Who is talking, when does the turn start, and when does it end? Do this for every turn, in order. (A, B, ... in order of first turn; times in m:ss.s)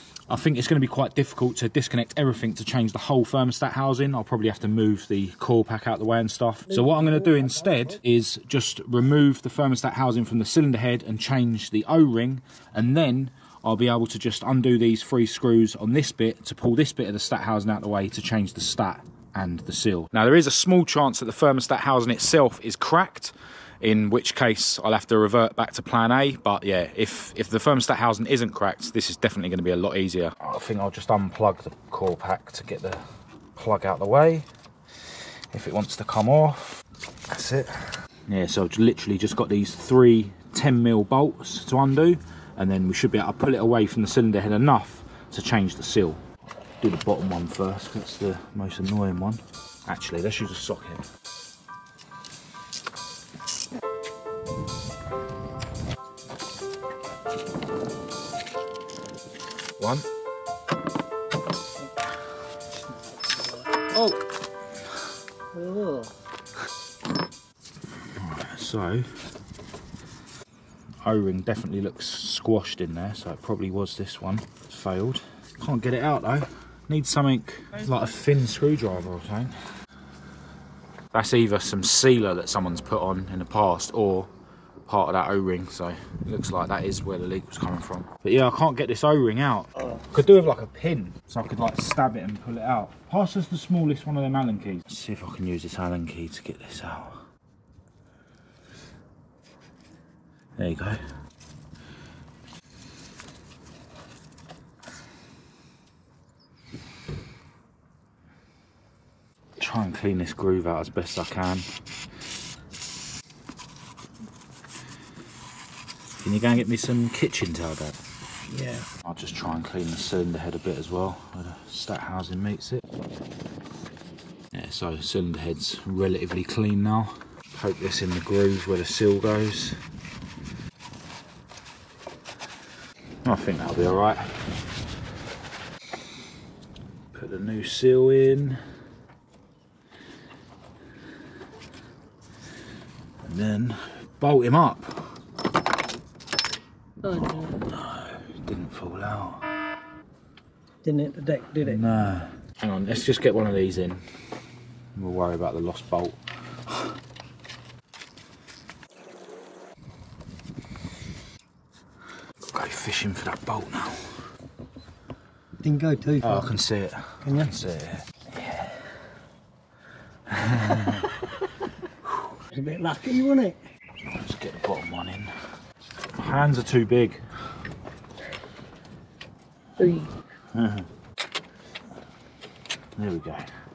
0:00.3-0:33.0 A
0:06.8-0:07.1 B
0:33.6-0:34.5 A
0:35.5-0:46.2 A
0:46.8-0:51.0 A
0:59.8-1:00.1 A
1:03.2-1:03.5 B
1:03.9-1:04.2 A
1:05.5-1:06.1 B
1:08.1-1:09.1 A
1:11.0-1:19.6 A
1:21.1-1:24.3 A
1:24.9-1:37.2 A
1:40.6-1:41.0 A
1:49.6-1:51.7 A
1:56.2-1:58.0 A
1:58.5-1:58.9 B
1:59.0-2:02.8 A
2:04.5-2:09.8 A
2:13.2-2:14.3 A
2:17.1-2:18.6 A
2:23.2-2:25.1 A
2:27.1-2:29.4 A
2:27.1-2:27.4 B
2:30.8-2:31.8 B
2:31.6-2:34.0 A
2:35.0-2:36.2 A
2:42.4-2:44.2 A
2:45.6-2:46.5 B
2:46.2-2:48.8 A
2:47.2-2:47.5 B
2:50.3-2:51.2 A
2:52.5-2:53.6 B
2:54.0-2:55.3 A
2:56.1-2:57.2 A
2:59.8-3:00.1 B
3:00.5-3:00.9 A
3:03.0-3:03.5 A